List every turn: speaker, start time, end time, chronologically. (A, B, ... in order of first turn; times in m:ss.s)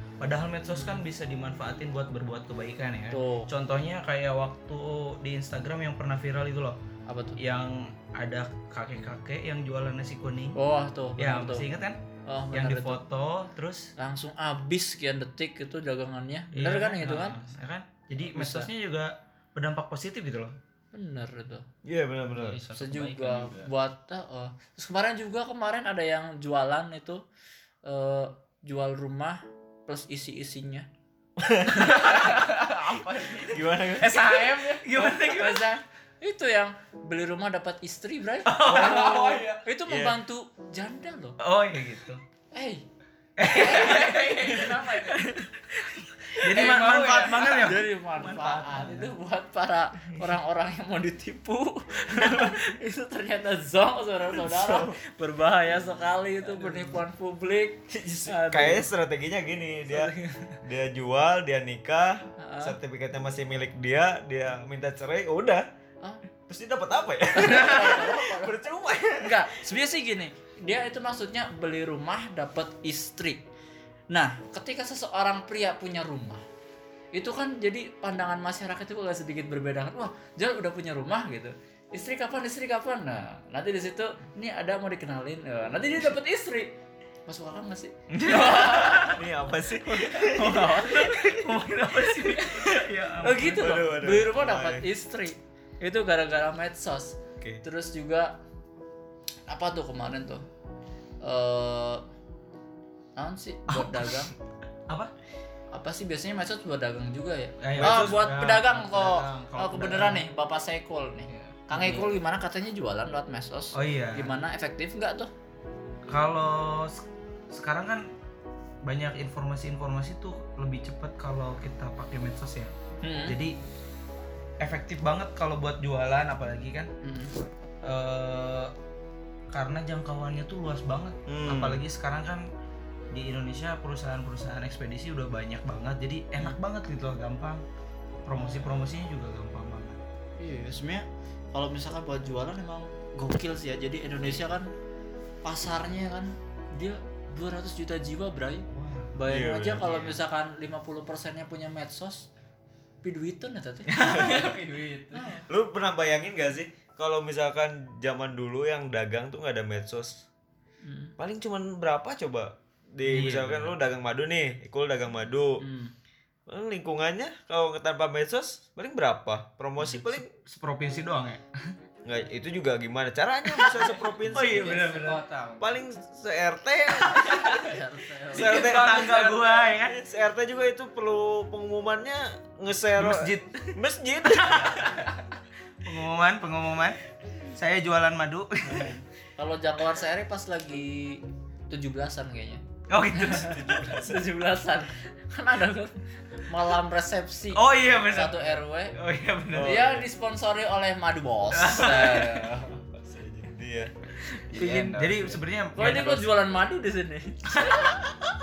0:00.2-0:06.8 A
0:00.7-0:01.0 B
0:03.1-0:03.5 B
0:07.0-0:07.4 B
0:07.4-0:10.6 A
0:10.6-0:11.7 B
0:11.2-0:12.0 A
0:12.2-0:13.0 B
0:12.5-0:13.9 A
0:14.0-0:17.4 B
0:16.5-0:20.6 A
0:18.2-0:18.7 B
0:20.9-0:21.6 B
0:21.8-0:22.6 C
0:22.3-0:23.7 D
0:22.7-0:27.2 B
0:27.8-0:30.9 B
0:31.4-0:32.2 C
0:31.8-0:32.4 B
0:32.1-0:33.6 D
0:33.4-0:34.4 C
0:34.0-0:35.7 A
0:34.1-0:41.4 B
0:38.4-0:39.6 A
0:38.6-0:39.5 D
0:39.8-0:40.2 C
0:41.4-0:42.2 A
0:42.5-0:42.8 B
0:43.4-0:44.6 A
0:43.4-0:45.5 B
0:43.7-0:44.9 D
0:46.2-0:49.1 A
0:46.3-0:58.9 B
0:46.6-0:47.5 D
0:54.5-0:55.0 C
0:57.9-1:05.6 C
0:59.9-1:00.5 B
1:02.4-1:02.8 B
1:06.5-1:09.6 C
1:07.3-1:08.6 B
1:09.2-1:13.4 B
1:14.1-1:16.4 B
1:17.1-1:29.2 B
1:28.1-1:29.2 A
1:29.0-1:30.7 C
1:29.8-1:38.4 B
1:30.2-1:33.8 A
1:33.4-1:34.8 C
1:39.5-1:40.4 B
1:41.2-1:42.0 B
1:43.2-1:44.3 B
1:43.7-1:44.3 A
1:45.7-1:55.3 B
1:47.6-1:50.2 A
1:47.8-1:48.2 C
1:51.3-1:52.2 A
1:53.7-1:54.3 A
1:56.1-1:58.1 A
1:58.8-2:03.6 A
2:03.0-2:03.4 B
2:04.6-2:06.9 A
2:07.0-2:07.4 B
2:07.8-2:08.7 A
2:09.5-2:12.4 A
2:11.3-2:11.8 C
2:13.1-2:17.6 A
2:18.2-2:20.0 A
2:18.3-2:18.7 B
2:20.4-2:24.7 B
2:25.4-2:32.3 B
2:28.7-2:29.1 A
2:29.2-2:30.1 C
2:33.0-2:34.4 B
2:33.9-2:34.5 A
2:34.0-2:35.3 D
2:35.1-2:35.5 B
2:35.5-2:40.2 C
2:40.8-2:41.1 B
2:41.2-2:45.6 C
2:43.0-2:43.7 A
2:45.6-2:45.9 B
2:46.5-2:50.2 C
2:49.8-2:51.7 A
2:52.0-2:54.8 C
2:53.6-2:55.2 A
2:54.2-2:55.8 D
2:55.6-2:57.6 C
2:57.5-2:58.6 B
2:58.3-3:05.0 C
2:58.3-3:00.0 A
2:58.6-2:59.3 D
3:03.0-3:03.8 A
3:05.8-3:07.0 A
3:07.5-3:09.0 A
3:08.7-3:12.6 B
3:12.9-3:13.8 A
3:13.1-3:19.0 B
3:13.4-3:14.2 C
3:17.5-3:19.8 A
3:19.5-3:20.1 C
3:19.6-3:22.8 B
3:21.5-3:22.5 A
3:23.0-3:23.9 C
3:24.5-3:25.4 D
3:24.5-3:26.3 A
3:25.7-3:28.0 B
3:27.6-3:27.8 A